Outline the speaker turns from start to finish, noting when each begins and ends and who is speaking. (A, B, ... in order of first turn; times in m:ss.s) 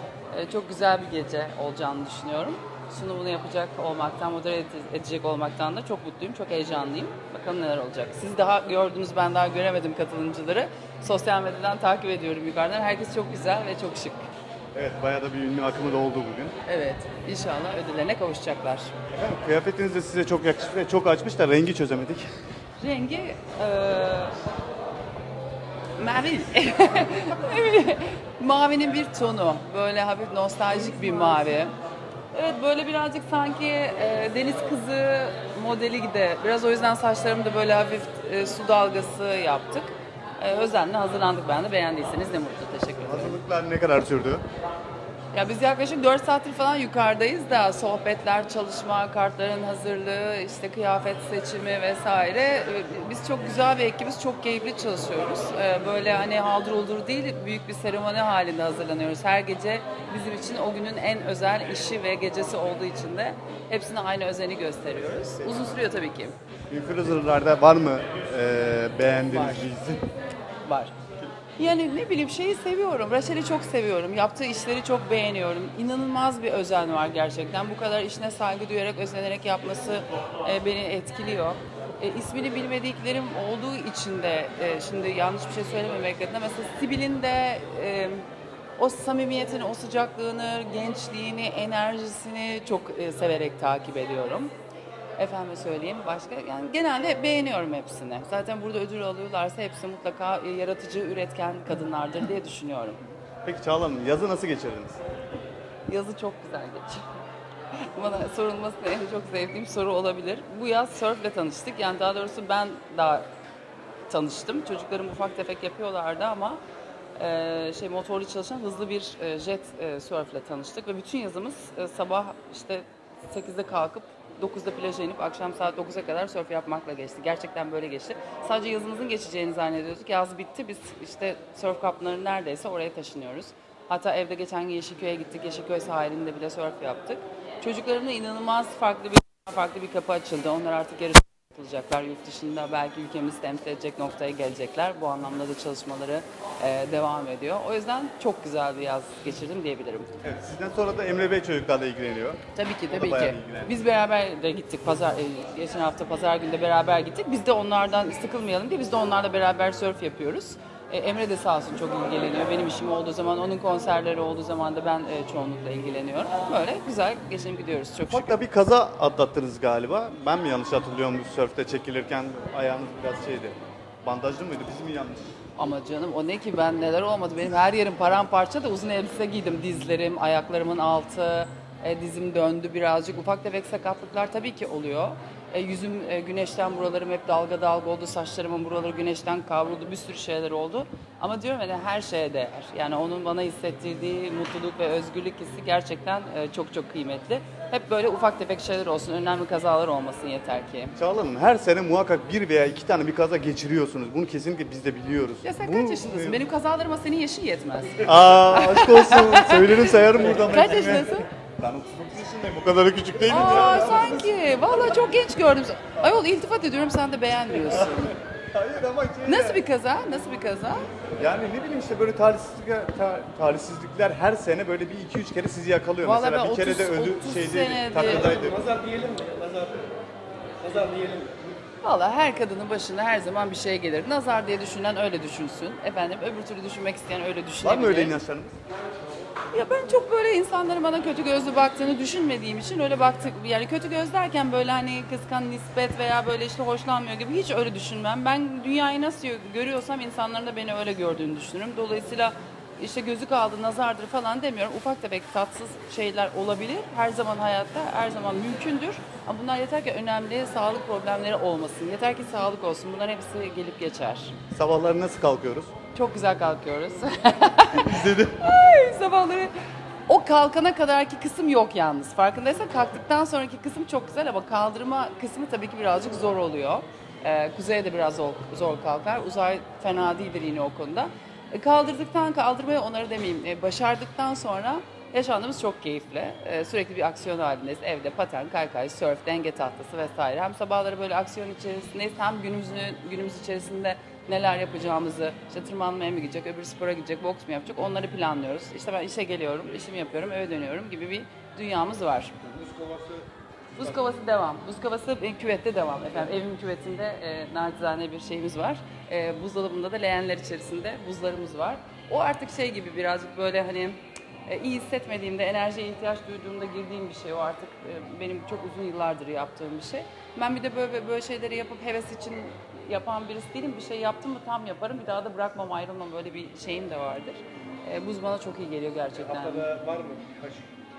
0:00.3-0:14.2 A
0:14.7-0:16.5 B
0:16.6-0:18.9 A
0:19.1-0:22.2 B
0:22.8-0:24.3 A
0:26.0-0:31.7 A
0:32.3-0:43.4 A
0:43.0-0:44.4 B
0:45.3-1:06.3 A
1:06.7-1:10.0 B
1:09.3-1:09.6 A
1:10.6-1:10.9 A
1:11.6-1:28.2 A
1:28.8-1:34.5 A
1:35.2-1:43.0 A
1:43.4-1:45.0 B
1:45.9-1:47.1 A
1:47.8-1:53.2 A
1:54.1-1:56.6 A
1:57.2-2:30.1 A
2:30.2-2:33.8 B
2:32.5-2:48.4 A
2:48.1-2:55.3 B
2:55.6-3:20.9 A
3:21.0-3:26.4 B
3:25.4-3:31.3 A
3:28.0-3:34.9 B
3:33.3-3:38.2 A
3:37.7-3:39.6 B
3:39.2-3:40.9 A
3:41.2-3:48.6 B
3:46.0-3:48.4 A
3:48.0-3:49.9 C
3:50.6-3:51.4 C
3:51.8-3:58.2 A
3:57.6-3:58.6 B
3:59.5-4:24.4 A
4:24.5-4:25.7 B
4:25.9-4:29.5 A
4:27.7-4:28.4 B
4:30.1-5:02.4 A
5:02.4-5:03.2 C
5:03.8-5:29.7 A
5:29.2-5:30.7 C